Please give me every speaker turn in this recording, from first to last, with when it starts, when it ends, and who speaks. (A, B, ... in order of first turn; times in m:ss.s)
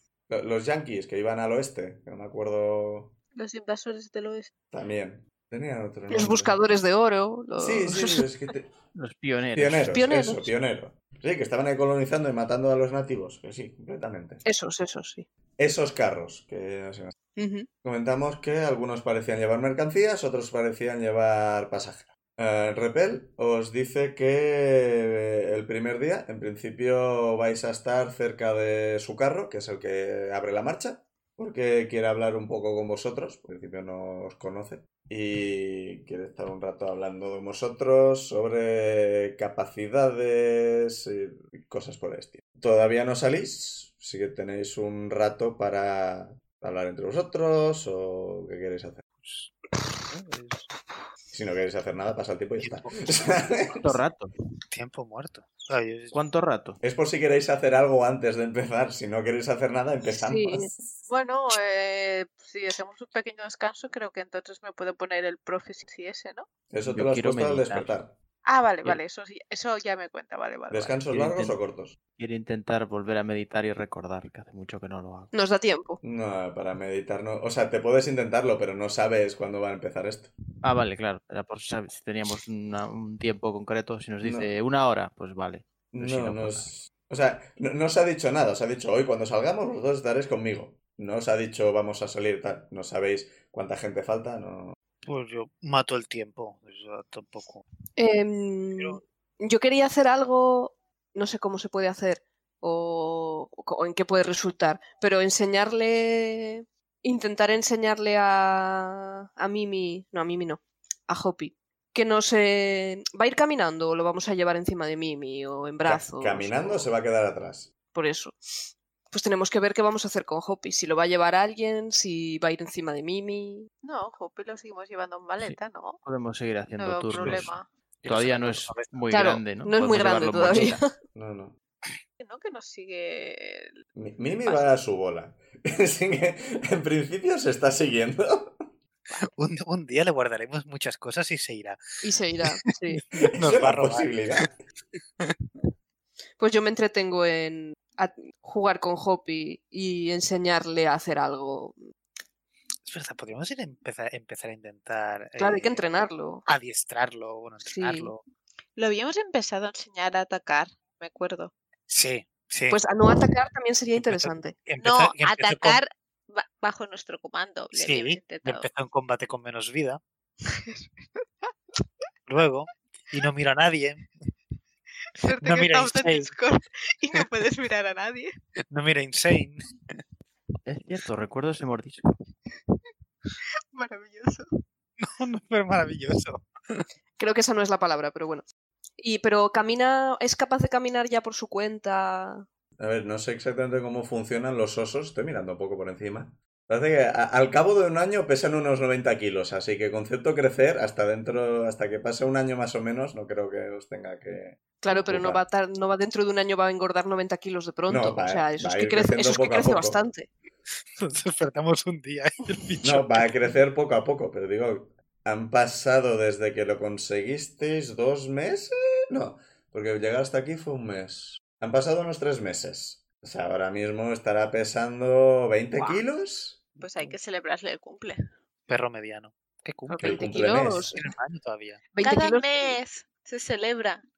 0:00.3-0:03.2 A
0:03.4-0:04.5 B
0:04.7-0:06.6 A
0:06.1-0:08.2 C
0:07.6-0:08.7 A
0:09.0-0:10.0 D
0:09.5-0:14.4 A
0:09.9-0:10.5 C
0:14.4-0:15.2 C
0:15.6-0:17.1 A
0:17.4-0:17.7 C
0:17.8-0:49.0 A
0:49.2-0:49.5 E
0:50.0-0:51.1 E
0:51.3-0:53.8 A
0:52.6-0:53.4 E
0:53.8-0:54.3 D
0:54.7-0:56.2 E
0:56.1-0:56.8 D
0:56.8-1:00.9 A
1:00.2-1:00.7 C
1:01.1-1:06.5 B
1:06.7-1:08.2 A
1:06.8-1:07.9 D
1:08.4-1:11.0 B
1:10.7-1:12.0 A
1:11.1-1:11.6 D
1:12.2-1:15.3 D
1:15.3-1:16.0 C
1:16.0-1:20.3 A
1:20.6-1:26.7 D
1:24.2-1:24.5 A
1:25.9-1:34.8 A
1:35.0-1:37.6 E
1:38.0-1:56.9 C
1:55.8-1:57.7 A
1:57.9-1:58.4 C
1:59.1-2:03.7 C
2:03.8-2:06.0 B
2:05.4-2:07.5 D
2:06.8-2:07.7 B
2:07.2-2:07.5 E
2:08.0-2:09.0 E
2:08.0-2:10.8 D
2:09.1-2:10.9 C
2:11.1-2:11.5 A
2:12.2-2:13.7 B
2:14.0-2:18.7 A
2:19.2-2:21.8 E
2:22.0-2:23.0 C
2:22.4-2:24.5 E
2:23.2-2:24.6 A
2:26.4-2:31.8 C
2:32.8-2:38.2 E
2:35.4-2:36.4 C
2:37.6-2:38.1 C
2:38.8-2:41.5 B
2:41.9-2:43.2 E
2:42.7-2:44.6 C
2:44.0-2:45.8 E
2:44.8-2:48.6 B
2:47.7-2:50.0 E
2:50.5-2:50.9 B
2:52.3-2:54.1 E
2:55.2-2:58.3 B
2:55.4-2:56.3 E
2:58.7-2:59.6 E
3:00.6-3:02.1 D
3:03.7-3:04.5 B
3:05.0-3:06.8 E
3:07.2-3:08.4 C
3:09.0-3:12.4 C
3:12.8-3:25.4 A
3:24.8-3:30.3 C
3:27.9-3:30.0 A
3:31.0-3:33.3 E
3:32.8-3:46.6 A
3:45.7-3:46.0 C
3:46.8-3:48.2 B
3:46.8-3:47.2 E
3:48.7-3:51.8 E
3:49.9-3:51.1 C
3:50.0-3:50.9 A
3:52.0-3:52.7 C
3:52.0-3:54.0 B